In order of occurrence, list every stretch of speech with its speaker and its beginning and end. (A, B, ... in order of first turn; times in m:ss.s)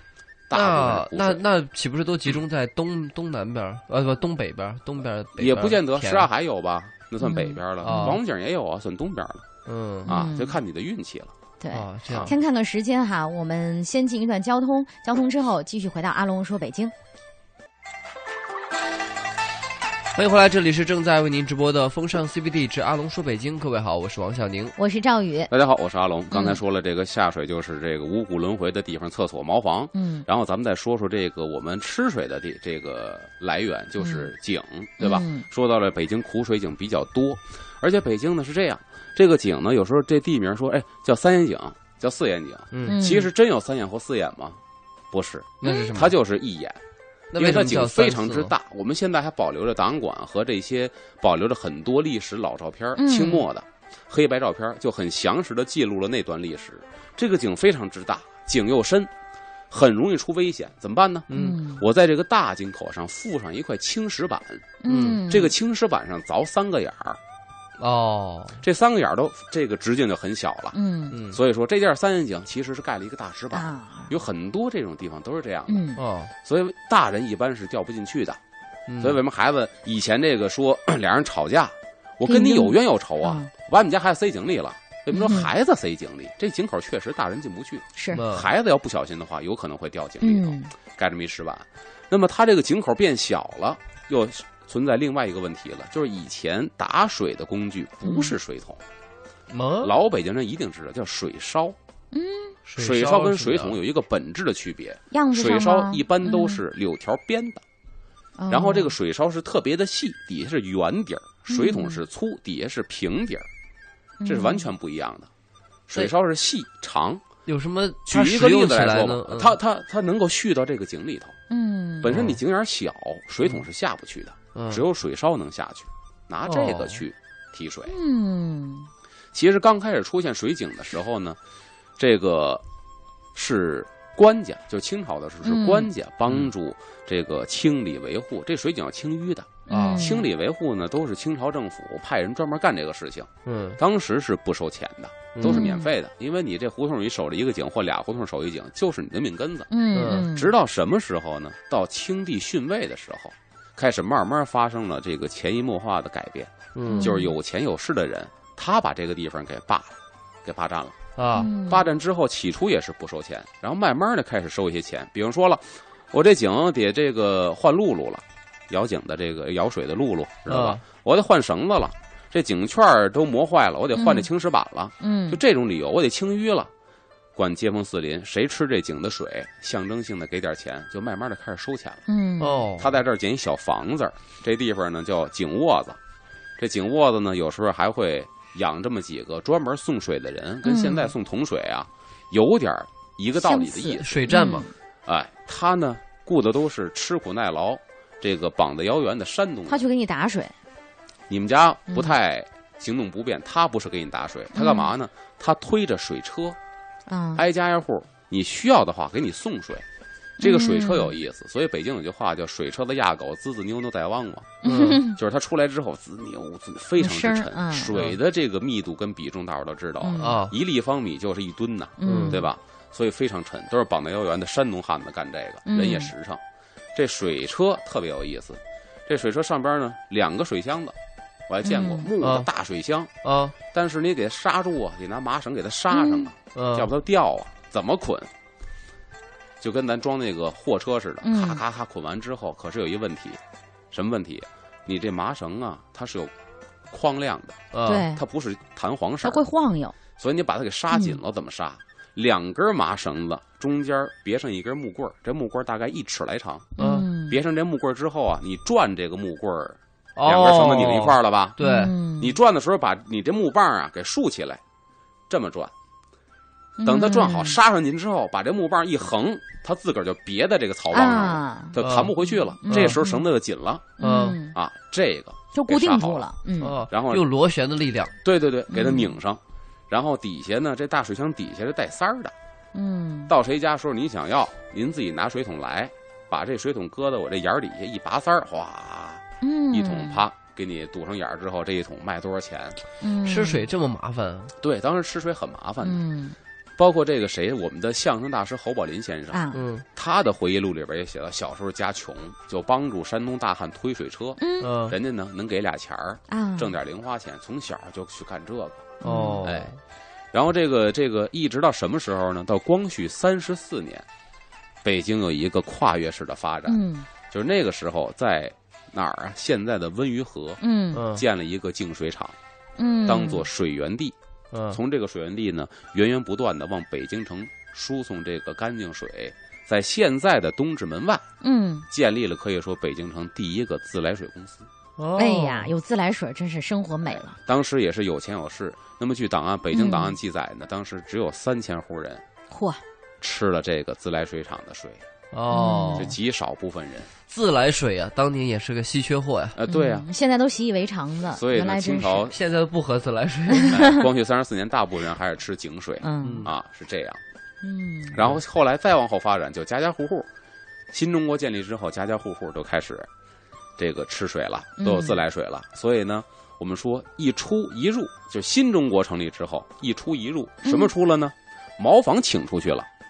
0:00.5-0:01.4 A
0:00.5-0:06.3 B
0:05.4-0:09.4 A
0:07.2-0:08.2 C
0:07.8-0:08.2 B
0:09.6-0:10.1 B
0:10.0-0:10.6 C
0:10.1-0:11.3 A
0:11.6-0:16.9 C
0:11.7-0:12.4 B
0:12.1-0:12.3 A
0:20.1-0:24.7 B
0:24.8-0:25.5 C
0:25.5-0:46.8 A
0:26.3-0:26.6 C
0:29.9-0:30.2 C
0:34.0-0:34.3 C
0:35.0-0:35.4 C
0:42.7-0:43.0 B
0:42.8-0:43.3 C
0:45.6-0:46.1 B
0:45.6-0:45.9 C
0:47.3-0:48.5 B
0:47.4-0:59.1 A
0:53.0-0:53.4 C
0:59.7-1:04.7 A
1:01.3-1:01.6 B
1:01.3-1:01.8 C
1:04.8-1:05.5 C
1:04.9-1:05.2 B
1:05.3-1:07.2 A
1:07.8-1:08.6 B
1:08.6-1:10.8 A
1:10.7-1:11.2 C
1:11.1-1:11.4 B
1:11.3-1:15.9 A
1:13.5-1:14.1 C
1:15.7-1:16.0 C
1:16.0-1:16.3 B
1:16.4-1:18.4 A
1:18.9-1:19.2 B
1:19.0-1:38.8 A
1:22.2-1:23.5 C
1:25.1-1:25.5 C
1:27.9-1:28.2 C
1:28.1-1:28.5 B
1:30.2-1:30.7 C
1:38.0-1:38.3 C
1:39.5-1:39.9 B
1:39.8-1:41.8 A
1:42.1-1:42.6 C
1:42.6-1:43.8 B
1:42.8-1:47.6 A
1:45.1-1:46.6 C
1:48.4-1:48.9 C
1:48.5-1:53.5 A
1:51.5-1:52.0 C
1:54.2-1:54.7 C
1:54.2-1:55.3 A
1:55.9-1:57.2 A
1:57.5-1:59.5 B
1:58.0-2:01.4 A
2:01.5-2:02.2 C
2:02.0-2:08.0 A
2:02.1-2:02.4 B
2:04.5-2:04.8 B
2:06.4-2:07.0 B
2:07.9-2:08.9 C
2:09.3-2:11.4 A
2:12.0-2:12.6 A
2:13.3-2:41.0 A
2:15.4-2:15.9 C
2:19.7-2:20.2 C
2:19.7-2:20.0 B
2:23.4-2:23.8 B
2:25.3-2:25.7 B
2:25.4-2:25.9 C
2:29.7-2:30.5 C
2:29.9-2:30.2 B
2:36.7-2:37.1 B
2:36.8-2:37.3 C
2:41.2-2:41.5 B
2:41.3-2:41.8 C
2:41.6-2:56.7 A
2:50.5-2:50.8 B
2:53.9-2:54.3 C
2:55.0-2:55.4 C
2:57.4-3:02.0 A
3:02.1-3:02.7 C
3:02.4-3:03.0 B
3:02.8-3:06.0 A
3:06.6-3:14.2 A
3:10.6-3:11.1 C
3:13.4-3:14.7 C
3:13.9-3:14.7 B
3:15.0-3:19.8 A
3:19.7-3:20.5 C
3:21.3-3:26.6 A
3:24.5-3:24.9 C
3:27.1-3:27.4 C
3:27.4-3:29.8 A
3:30.4-3:31.1 C
3:30.4-3:46.4 A
3:34.6-3:35.2 C
3:34.6-3:35.0 B
3:37.0-3:37.9 C
3:40.0-3:40.4 C
3:40.2-3:40.6 B
3:42.0-3:42.5 C
3:42.0-3:42.4 B
3:45.6-3:46.1 C
3:46.9-3:51.0 A
3:51.5-3:53.1 A
3:51.6-3:52.1 C
3:52.2-3:52.5 B
3:53.2-3:53.5 B
3:53.7-3:58.3 A
3:55.9-3:56.3 C
3:56.5-3:56.9 B
3:59.6-4:03.4 A
4:01.2-4:01.6 C
4:03.9-4:06.3 A
4:06.9-4:09.4 A
4:07.7-4:08.1 B
4:07.8-4:08.2 C
4:09.2-4:10.0 C
4:10.2-4:16.7 A
4:10.9-4:11.2 C
4:16.8-4:17.4 C
4:16.8-4:17.1 B
4:17.3-4:21.6 A
4:20.2-4:21.9 B
4:21.6-4:22.4 C
4:22.2-4:24.6 A
4:25.3-4:25.7 A
4:26.8-4:27.6 C
4:26.8-4:33.9 A
4:30.9-4:31.8 C
4:31.8-4:32.1 B
4:32.3-4:33.2 C
4:32.7-4:33.0 B
4:34.0-4:34.6 C
4:34.0-4:34.4 B
4:34.5-4:36.3 A
4:35.5-4:36.8 C
4:36.6-4:38.1 B
4:36.9-4:37.2 A
4:38.2-4:42.3 A
4:38.7-4:39.1 C
4:42.7-4:43.3 C
4:43.3-4:52.8 A
4:49.4-4:50.2 C
4:53.0-4:53.7 C
4:53.2-4:54.5 B
4:54.6-4:56.0 A
4:55.8-4:56.4 C
4:56.8-4:59.4 A
4:59.3-4:59.6 C
4:59.5-4:59.8 B
4:59.9-5:09.7 A
5:04.4-5:04.8 C
5:04.6-5:05.0 B
5:06.3-5:06.8 C
5:09.0-5:09.4 C
5:09.0-5:09.8 B
5:10.3-5:14.0 A
5:14.8-5:20.6 A
5:16.7-5:17.1 C
5:20.6-5:21.0 C
5:20.9-5:21.2 B
5:21.1-5:22.4 A
5:22.8-5:23.5 C
5:23.0-5:24.2 A
5:24.5-5:24.8 B
5:24.7-5:31.2 A
5:31.4-5:31.9 C
5:31.9-5:34.7 A
5:35.0-5:35.7 B
5:35.2-5:37.4 C
5:37.1-5:42.2 A
5:39.7-5:40.2 C
5:42.5-5:42.8 C
5:43.2-5:45.0 A
5:45.3-5:46.1 B
5:45.5-5:46.1 C
5:46.0-5:47.1 A
5:47.3-5:49.6 B
5:49.5-5:50.1 A
5:49.7-5:52.3 C
5:51.3-5:52.3 A
5:52.3-5:53.9 B
5:53.5-5:54.0 C
5:53.7-5:57.2 A
5:56.0-5:56.5 C
5:56.2-5:56.5 B
5:57.6-5:58.2 C
5:58.1-6:00.3 A
6:00.9-6:03.1 A
6:03.8-6:12.9 A
6:04.8-6:05.2 C
6:10.6-6:10.9 C